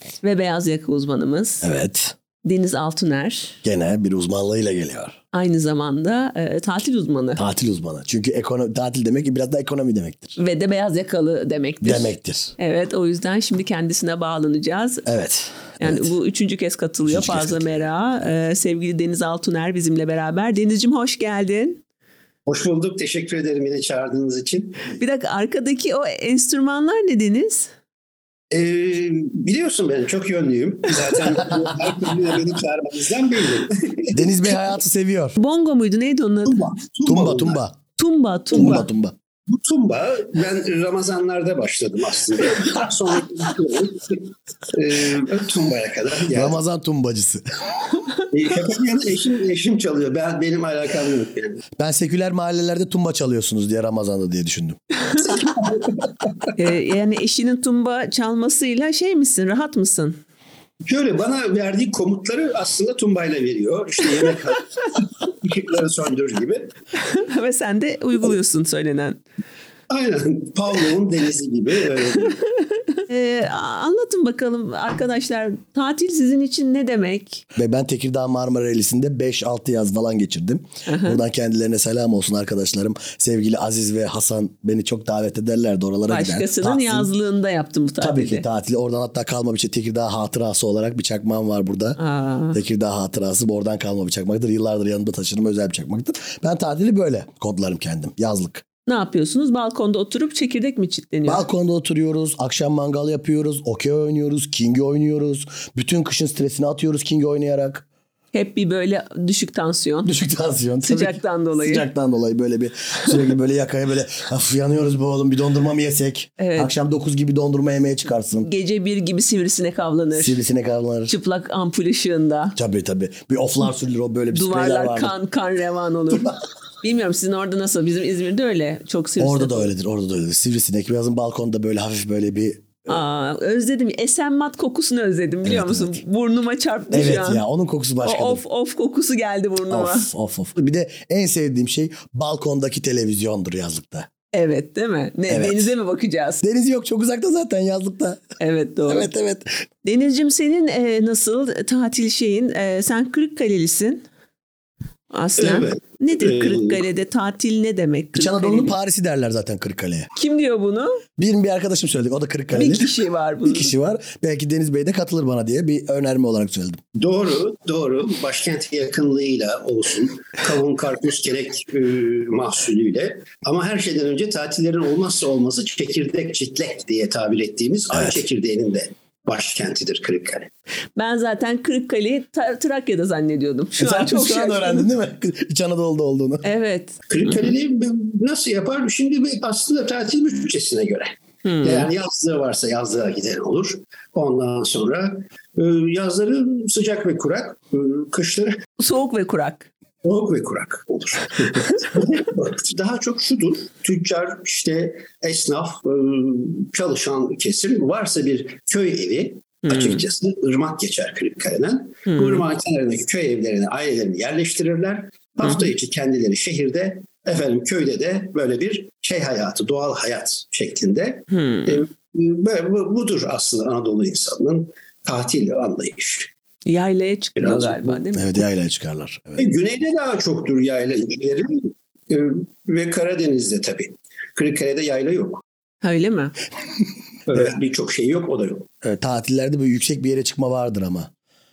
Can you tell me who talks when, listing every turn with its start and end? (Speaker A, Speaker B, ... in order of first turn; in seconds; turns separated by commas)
Speaker A: 0.2-1.7, Speaker B: 1.6-2.1, Speaker A: 2.4-3.6, Speaker B: 3.6-5.2, Speaker A: 5.3-7.4, Speaker B: 7.4-10.3, Speaker A: 10.4-15.1, Speaker B: 11.8-12.5, Speaker B: 15.1-16.1, Speaker A: 15.8-21.8, Speaker B: 17.1-17.9, Speaker C: 22.4-24.9, Speaker A: 24.9-27.7, Speaker C: 28.5-34.3, Speaker B: 34.1-35.4, Speaker A: 35.4-36.6, Speaker C: 36.5-37.6, Speaker B: 37.0-37.8, Speaker A: 38.0-38.9, Speaker B: 38.5-39.1, Speaker C: 39.5-46.6, Speaker B: 46.3-47.4, Speaker C: 48.3-51.6, Speaker B: 51.8-54.8, Speaker C: 55.2-56.5, Speaker A: 56.5-60.2, Speaker C: 60.8-66.7, Speaker A: 67.0-69.2, Speaker C: 69.9-72.4, Speaker A: 72.9-77.4, Speaker B: 77.5-87.1, Speaker A: 80.8-81.2, Speaker A: 86.1-88.4, Speaker B: 88.0-92.0, Speaker A: 92.0-92.6, Speaker B: 92.5-98.6, Speaker A: 98.8-101.5, Speaker B: 101.2-107.8, Speaker A: 108.3-110.1, Speaker B: 110.0-118.5, Speaker A: 110.8-111.8, Speaker A: 116.4-116.7, Speaker A: 118.4-120.4, Speaker B: 120.1-121.1, Speaker A: 121.1-122.6, Speaker B: 122.5-125.2, Speaker A: 124.3-129.7, Speaker B: 126.1-126.4, Speaker B: 129.2-133.0, Speaker A: 132.9-137.4, Speaker B: 135.4-136.0, Speaker B: 136.9-138.4, Speaker A: 138.0-140.1, Speaker B: 139.7-144.1, Speaker A: 144.3-146.4, Speaker B: 145.3-145.7, Speaker B: 146.4-148.2, Speaker A: 148.4-149.1, Speaker B: 148.9-149.6, Speaker A: 149.8-154.0, Speaker A: 155.1-158.7, Speaker C: 155.4-156.8, Speaker B: 158.1-160.1, Speaker A: 160.1-161.0, Speaker B: 161.2-162.9, Speaker A: 162.5-163.7, Speaker B: 163.4-166.8, Speaker C: 166.9-180.5, Speaker B: 177.9-178.2, Speaker A: 180.9-184.9, Speaker B: 183.8-186.4, Speaker A: 186.4-187.5, Speaker C: 187.1-198.6, Speaker A: 191.4-191.9, Speaker A: 198.8-199.7, Speaker C: 200.0-226.3, Speaker A: 209.6-210.0, Speaker A: 212.1-212.4, Speaker A: 221.3-221.8, Speaker A: 226.7-228.4, Speaker C: 227.4-228.0, Speaker B: 228.1-229.5, Speaker C: 229.4-235.4, Speaker A: 235.8-236.3, Speaker C: 237.3-238.7, Speaker B: 238.8-241.1